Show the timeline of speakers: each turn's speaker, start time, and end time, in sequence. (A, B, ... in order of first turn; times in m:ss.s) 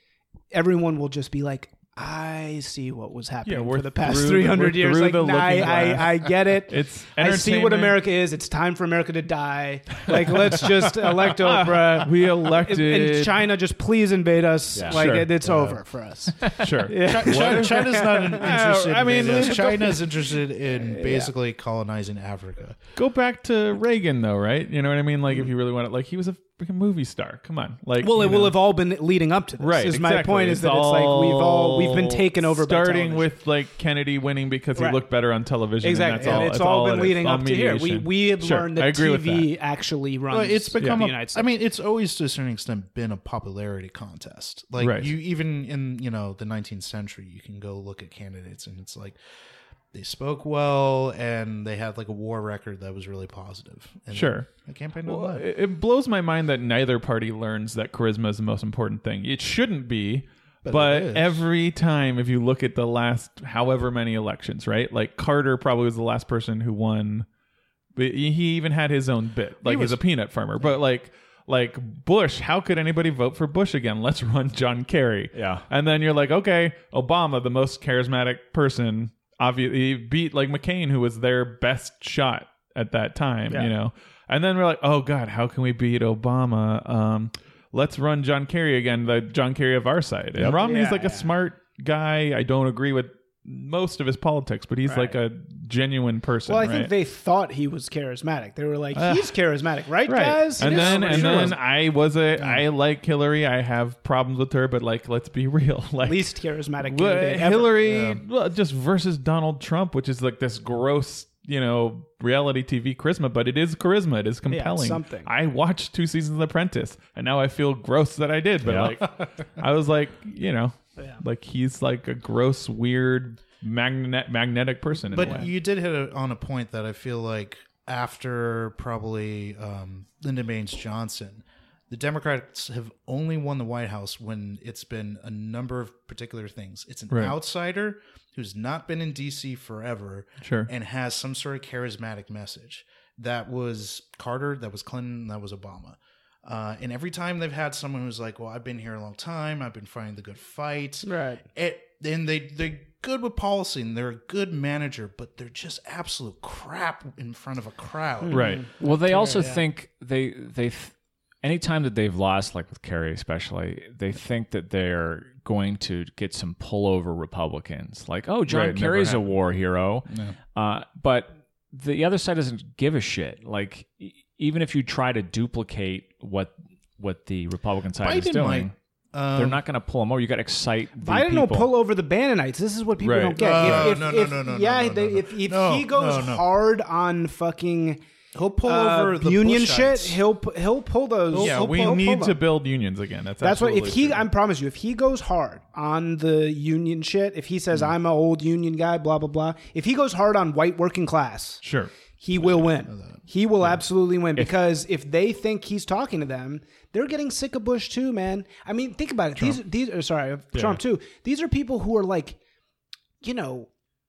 0:00.5-0:18.6 A
0:03.4-0:08.0 B
0:10.6-0:13.4 B
0:14.7-0:15.0 C
0:14.9-0:15.3 B
0:15.4-0:15.8 D
0:16.6-0:20.0 B
0:16.9-0:22.8 D
0:19.2-0:21.3 A
0:22.9-0:28.6 B
0:28.0-0:33.3 A
0:29.6-0:39.5 B
0:34.8-0:35.0 A
0:35.8-0:41.5 A
0:40.3-0:49.2 D
0:40.8-0:41.0 B
0:44.8-0:45.1 B
0:49.9-0:55.4 D
0:54.1-0:54.5 B
0:55.0-1:07.3 B
1:00.6-1:01.5 D
1:07.9-1:36.9 B
1:09.6-1:10.0 D
1:15.3-1:15.6 C
1:30.5-1:31.3 A
1:34.8-1:35.2 A
1:36.5-1:41.6 A
1:38.9-1:39.4 B
1:40.0-2:05.5 B
1:40.6-1:41.6 D
1:46.0-1:47.7 A
1:47.8-1:48.2 D
1:54.5-1:55.3 A
1:58.6-1:59.0 C
2:05.1-2:38.6 D
2:05.2-2:05.5 A
2:17.1-2:17.3 B
2:20.4-2:20.7 B
2:31.0-2:31.4 A
2:38.2-2:39.6 A
2:38.3-2:38.6 B
2:38.8-2:58.7 C
2:48.5-2:49.2 B
2:48.5-2:49.1 D
2:50.1-2:50.3 D
2:58.0-2:59.6 D
2:59.4-3:01.7 C
3:01.0-3:08.0 A
3:03.0-3:04.0 B
3:03.4-3:06.4 D
3:08.3-3:10.2 D
3:08.6-3:12.4 A
3:11.3-3:12.0 D
3:11.3-3:14.2 B
3:13.4-3:21.6 A
3:21.6-3:21.9 B
3:22.2-3:32.4 A
3:22.4-3:23.2 D
3:33.2-3:33.7 A